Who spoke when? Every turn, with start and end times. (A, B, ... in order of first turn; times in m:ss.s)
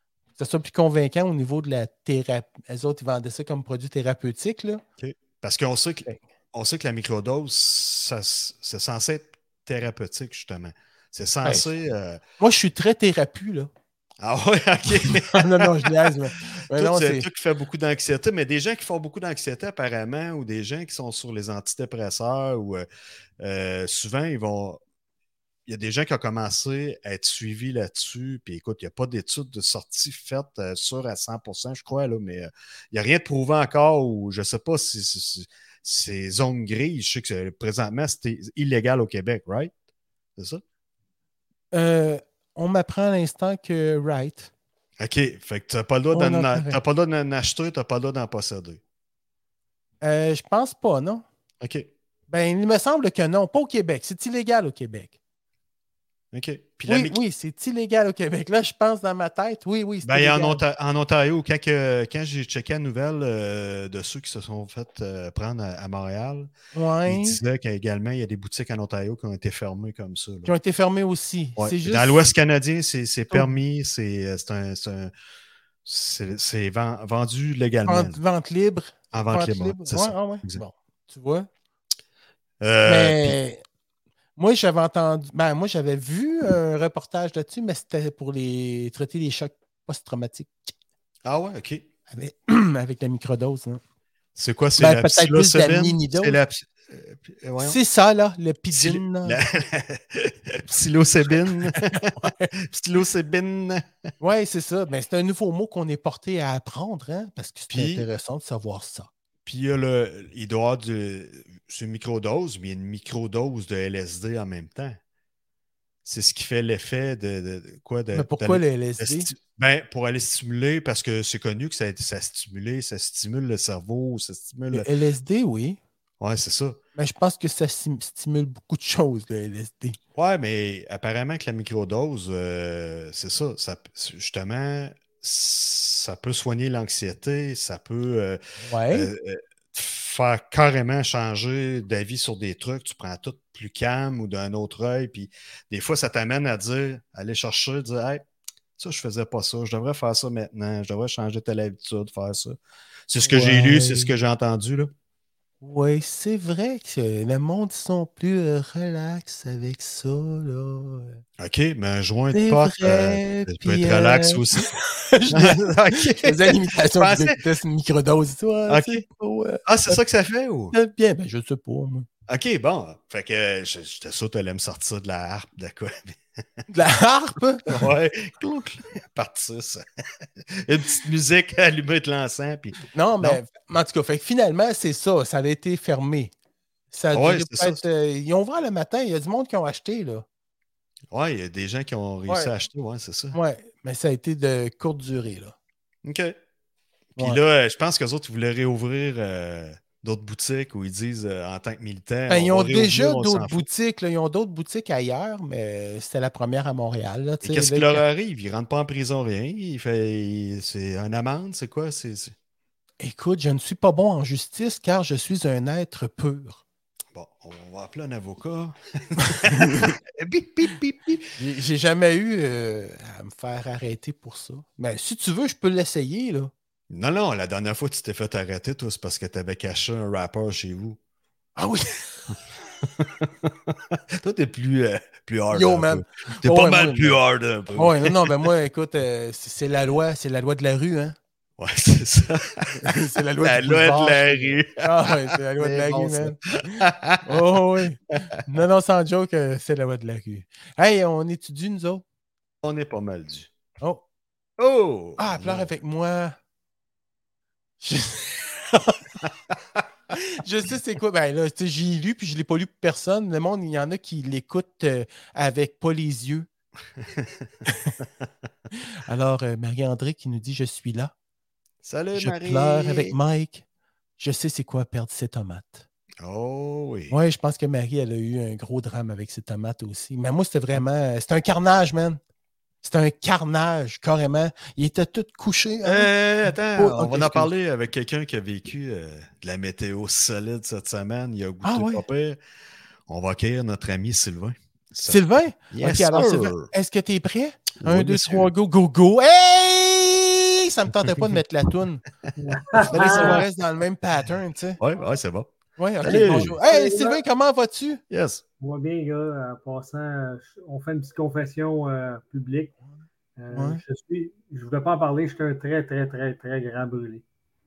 0:00.4-0:04.8 A
0:05.0-0:12.2 B
0:12.4-0:13.7 A
0:14.2-0:16.1 B
0:15.2-0:17.3 A
0:16.7-0:22.9 B
0:23.4-0:24.8 B
0:25.7-0:39.7 B
0:40.4-0:40.6 B
0:41.7-0:44.5 A
0:45.0-0:48.8 B
0:46.1-0:46.8 A
0:50.0-0:51.2 A
0:51.6-0:51.9 B
0:52.3-0:55.2 A
0:56.3-0:57.2 B
0:56.9-1:00.6 A
1:00.0-1:06.5 B
1:06.7-1:07.4 A
1:07.1-1:10.5 B
1:10.4-1:12.3 A
1:11.6-1:15.1 B
1:15.8-1:18.2 B
1:17.9-1:21.5 A
1:19.1-1:20.6 B
1:22.6-1:23.4 B
1:22.8-1:23.6 A
1:24.4-1:30.7 A
1:31.2-1:31.9 B
1:32.1-1:33.8 A
1:34.4-1:37.8 B
1:34.8-1:36.4 A
1:37.6-1:39.4 A
1:38.7-1:43.9 B
1:41.8-1:42.5 A
1:44.2-1:49.1 A
1:47.7-1:48.1 B
1:49.5-1:55.0 B
1:56.0-2:04.9 B
1:58.1-1:59.3 A
2:04.7-2:05.8 A
2:06.2-2:06.8 B
2:07.0-2:10.0 A
2:10.2-2:28.2 B
2:18.6-2:19.1 A
2:28.8-2:34.9 B
2:33.2-2:34.1 A
2:35.6-2:41.2 A
2:41.4-2:44.7 B
2:42.3-2:50.0 A
2:45.3-2:47.4 B
2:48.7-2:49.0 B
2:49.6-2:50.7 B
2:50.7-2:52.1 A
2:52.3-2:56.2 B
2:56.7-2:57.9 A
2:57.7-2:59.8 B
3:00.5-3:03.4 B
3:02.9-3:06.3 A
3:06.9-3:10.2 A
3:07.1-3:07.8 B
3:11.1-3:13.4 B
3:13.3-3:15.6 A
3:16.0-3:16.4 B
3:17.2-3:23.6 B
3:22.3-3:28.0 A
3:27.4-3:32.3 B
3:33.0-3:36.6 A
3:37.1-3:41.3 B
3:39.3-3:40.0 A
3:41.4-3:46.5 A
3:46.9-3:51.0 B
3:51.6-3:52.3 A
3:52.8-3:58.4 B
3:55.5-3:57.2 A
3:57.8-4:01.2 A
4:01.6-4:07.5 B
4:02.8-4:06.4 A
4:07.2-4:12.0 A
4:12.6-4:13.5 B
4:14.6-4:15.7 B
4:15.2-4:16.4 A
4:17.8-4:19.0 A
4:20.1-4:26.5 A
4:27.0-4:27.5 B
4:27.7-4:27.9 A
4:29.1-4:31.1 A
4:31.8-4:33.2 B
4:32.2-4:33.6 A
4:34.2-4:35.8 A
4:36.2-4:37.2 B
4:37.1-4:42.2 A
4:42.8-4:47.5 A
4:45.8-4:52.4 B
4:51.6-4:52.0 A
4:53.1-4:56.7 B
4:55.1-5:02.0 A
4:57.8-4:58.5 B
5:02.4-5:03.4 C
5:02.8-5:04.8 A
5:02.9-5:03.5 B
5:04.8-5:06.5 B
5:05.8-5:08.0 A
5:06.1-5:07.2 C
5:08.1-5:08.4 B
5:08.6-5:12.7 C
5:13.4-5:17.2 C
5:13.5-5:13.8 A